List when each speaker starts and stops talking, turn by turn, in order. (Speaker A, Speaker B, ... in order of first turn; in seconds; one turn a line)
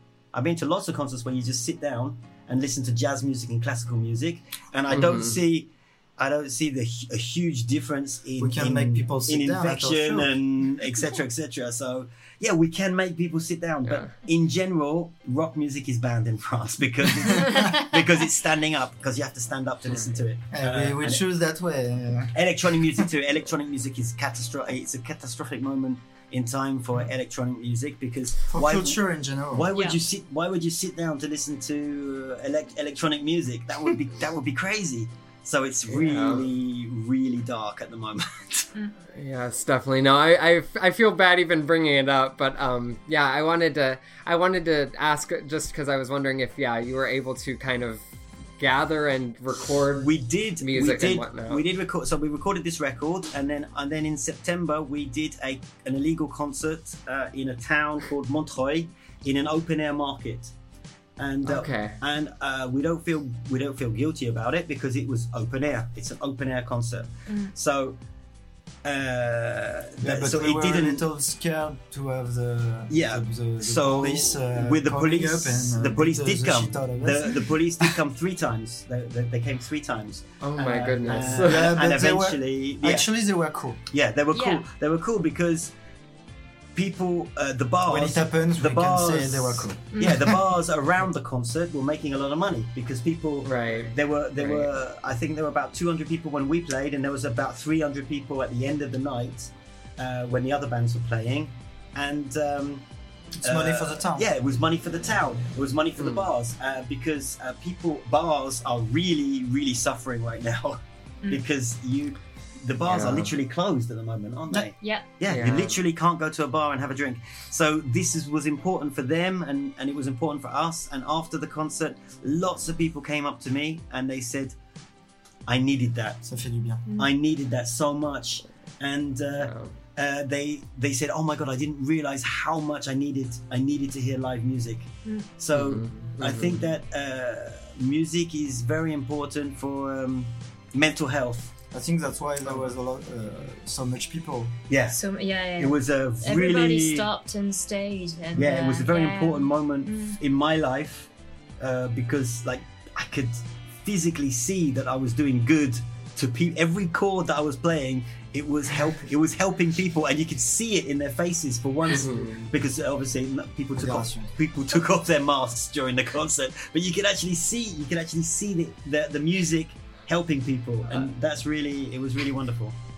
Speaker A: 0.3-21.2
Speaker B: 4.9-5.4
Speaker C: 8.4-10.4
Speaker B: 13.8-14.1
Speaker B: 19.9-20.2
Speaker C: 20.5-23.1
Speaker A: 22.3-29.0
Speaker C: 28.5-29.7
Speaker A: 29.5-38.7
Speaker D: 29.7-30.0
Speaker B: 35.9-36.5
Speaker B: 39.2-48.0
Speaker B: 48.6-51.6
Speaker A: 49.9-60.5
Speaker A: 61.2-68.0
Speaker B: 61.4-62.0
Speaker D: 67.3-67.5
Speaker A: 68.8-71.0
Speaker C: 70.0-78.0
Speaker A: 72.9-83.1
Speaker B: 80.4-81.8
Speaker C: 81.0-83.8
Speaker A: 83.9-85.7
Speaker D: 84.3-84.7
Speaker A: 86.8-102.8
Speaker C: 87.9-90.3
Speaker B: 93.4-94.7
Speaker C: 103.4-104.3
Speaker A: 103.4-124.6
Speaker B: 106.0-106.3
Speaker B: 112.8-113.3
Speaker D: 114.8-115.0
Speaker B: 115.3-115.8
Speaker A: 125.5-126.2
Speaker C: 126.2-126.8
Speaker A: 127.0-141.5
Speaker B: 129.4-129.7
Speaker B: 135.5-136.7
Speaker C: 141.7-144.6
Speaker A: 144.7-147.1
Speaker D: 144.9-150.2
Speaker A: 148.3-172.8
Speaker B: 161.9-162.4
Speaker C: 163.8-164.3